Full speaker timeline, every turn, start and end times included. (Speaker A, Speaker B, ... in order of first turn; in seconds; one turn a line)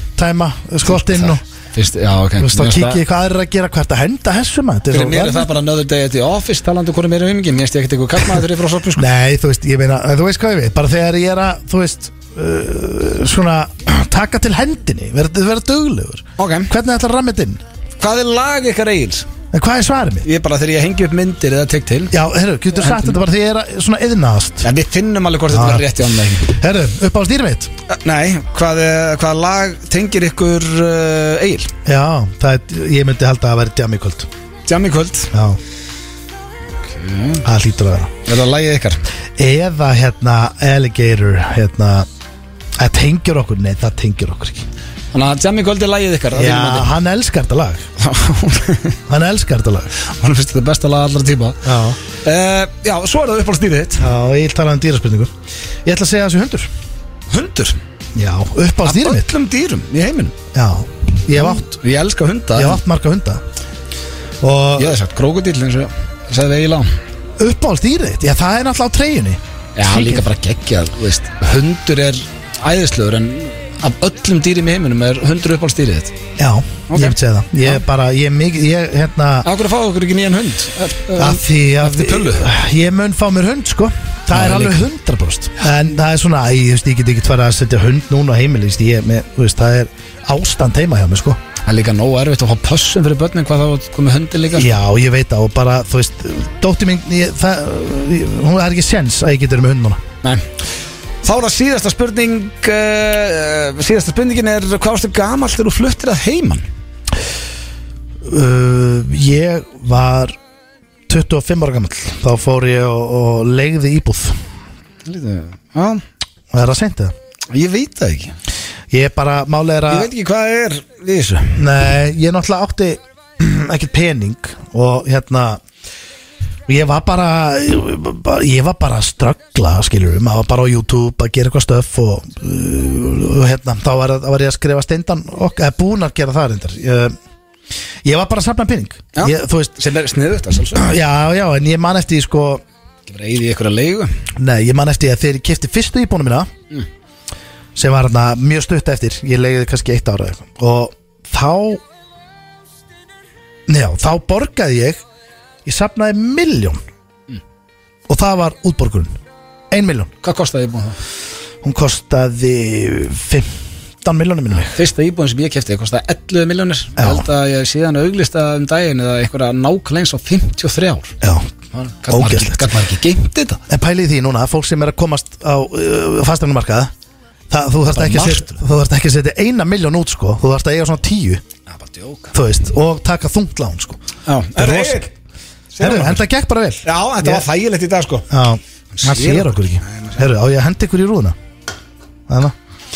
Speaker A: 0.2-1.4
Speaker B: 0.9-3.0
Speaker A: 2.4-5.5
Speaker B: 4.9-9.1
Speaker A: 9.0-17.6
Speaker B: 16.4-16.7
Speaker B: 18.0-19.3
Speaker A: 19.5-20.3
Speaker B: 20.2-22.1
Speaker A: 22.1-24.7
Speaker B: 22.8-23.2
Speaker B: 24.6-26.5
Speaker A: 25.5-25.9
Speaker A: 26.4-27.7
Speaker B: 27.9-31.7
Speaker A: 31.9-34.3
Speaker B: 34.7-35.3
Speaker A: 35.3-35.6
Speaker B: 36.9-37.4
Speaker A: 37.4-38.1
Speaker B: 38.3-39.0
Speaker A: 39.4-42.1
Speaker A: 42.8-44.7
Speaker B: 45.1-46.9
Speaker A: 46.3-47.9
Speaker B: 48.0-49.0
Speaker A: 49.1-49.9
Speaker B: 50.0-51.6
Speaker A: 51.6-52.0
Speaker B: 52.2-54.0
Speaker A: 54.0-55.3
Speaker A: 55.9-56.7
Speaker B: 57.3-57.8
Speaker A: 58.1-59.3
Speaker B: 58.9-60.3
Speaker A: 60.5-61.8
Speaker B: 61.3-62.8
Speaker A: 62.6-63.4
Speaker A: 64.4-65.0
Speaker B: 64.8-66.9
Speaker A: 67.4-69.4
Speaker B: 69.8-76.1
Speaker A: 69.9-70.2
Speaker A: 76.4-79.5
Speaker B: 76.9-77.8
Speaker B: 79.5-82.5
Speaker A: 81.2-91.4
Speaker B: 84.3-84.8
Speaker B: 91.7-94.7
Speaker A: 94.5-100.0
Speaker B: 101.2-106.6
Speaker A: 108.2-110.4
Speaker A: 111.1-114.4
Speaker B: 115.0-116.0
Speaker A: 116.5-117.1
Speaker B: 117.5-118.3
Speaker A: 118.9-120.1
Speaker B: 119.9-121.6
Speaker A: 121.6-125.6
Speaker A: 126.7-137.2
Speaker A: 138.0-139.8
Speaker B: 139.2-140.9
Speaker A: 140.8-142.6
Speaker B: 143.1-144.1
Speaker A: 144.4-146.5
Speaker A: 147.8-151.8
Speaker A: 153.7-155.0
Speaker A: 155.7-156.8
Speaker A: 158.1-159.2
Speaker A: 159.7-160.1
Speaker B: 160.2-161.0
Speaker A: 161.6-163.5
Speaker A: 164.0-164.8
Speaker B: 164.8-171.1
Speaker A: 167.0-167.3
Speaker A: 171.2-171.5
Speaker B: 171.7-173.6
Speaker A: 172.1-172.7
Speaker A: 173.7-176.9
Speaker A: 177.5-181.4
Speaker B: 177.9-178.6
Speaker B: 181.7-182.3
Speaker A: 182.3-184.0
Speaker B: 184.3-185.1
Speaker A: 184.6-185.1
Speaker B: 185.7-186.2
Speaker A: 185.8-187.5
Speaker B: 186.9-188.3
Speaker A: 188.3-191.4
Speaker B: 189.0-190.2
Speaker A: 192.3-192.6